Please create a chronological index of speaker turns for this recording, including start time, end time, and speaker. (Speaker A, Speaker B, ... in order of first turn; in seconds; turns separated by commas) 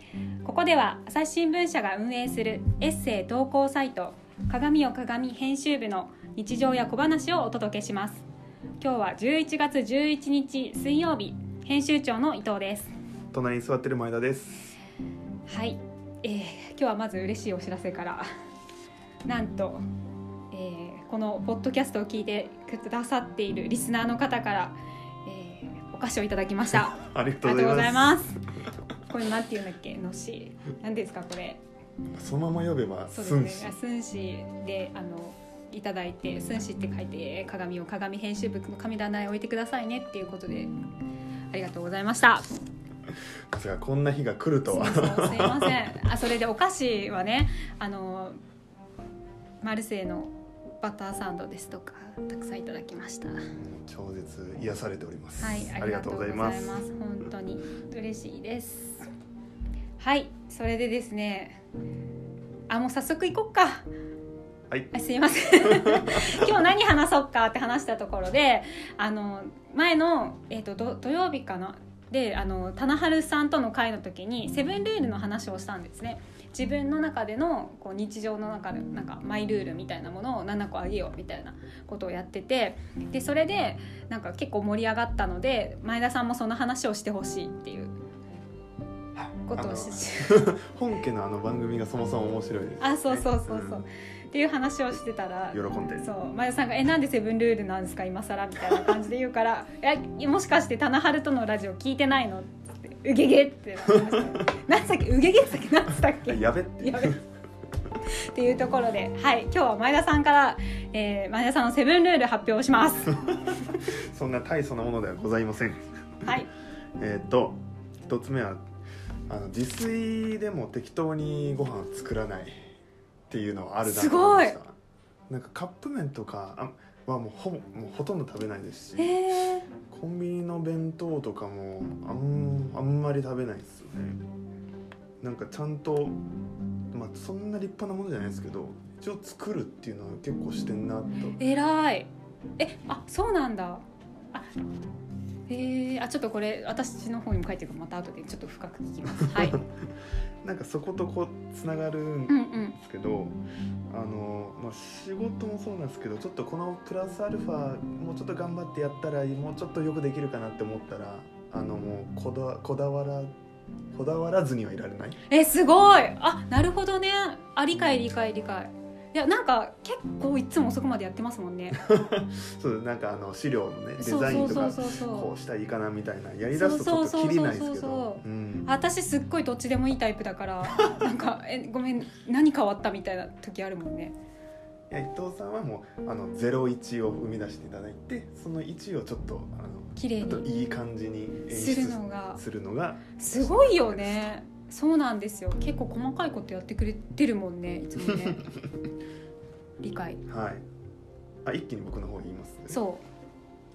Speaker A: 0.4-8.3, Speaker A: 8.8-12.9, Speaker B: 13.3-14.8, Speaker A: 15.5-18.3, Speaker A: 19.3-19.9, Speaker A: 20.5-28.4, Speaker B: 26.7-28.3, Speaker A: 29.0-31.6, Speaker B: 32.1-33.7, Speaker A: 33.1-40.7, Speaker A: 41.5-42.6, Speaker B: 43.5-45.8, Speaker A: 44.7-48.4, Speaker A: 49.6-53.4, Speaker B: 53.5-56.8, Speaker A: 55.4-59.1, Speaker A: 60.0-61.6, Speaker A: 62.7-63.9, Speaker A: 64.9-87.9, Speaker B: 65.6-66.5, Speaker B: 89.2-93.8, Speaker A: 89.5-90.5, Speaker A: 92.8-107.2, Speaker B: 95.5-96.1, Speaker B: 104.0-104.4, Speaker B: 106.2-107.2, Speaker A: 108.3-113.8, Speaker B: 113.8-116.3, Speaker A: 116.2-116.5, Speaker B: 117.0-118.6, Speaker B: 119.3-122.5, Speaker B: 123.3-124.8, Speaker A: 123.8-124.6, Speaker B: 125.3-129.2, Speaker A: 129.0-129.7, Speaker B: 129.9-134.2, Speaker B: 135.2-136.2, Speaker B: 136.9-141.4, Speaker A: 141.3-143.8, Speaker A: 145.5-149.6, Speaker B: 149.2-149.7, Speaker B: 150.4-153.4, Speaker A: 152.3-152.8, Speaker B: 153.9-163.3, Speaker B: 163.9-165.2, Speaker A: 165.3-171.8, Speaker B: 167.7-168.1, Speaker B: 171.7-178.7, Speaker A: 174.0-175.3, Speaker A: 176.5-184.2, Speaker B: 184.9-194.3, Speaker A: 189.9-190.5, Speaker A: 191.5-192.4, Speaker A: 193.2-198.5, Speaker A: 199.8-200.2, Speaker B: 200.3-200.7, Speaker B: 201.4-202.8, Speaker A: 202.7-203.0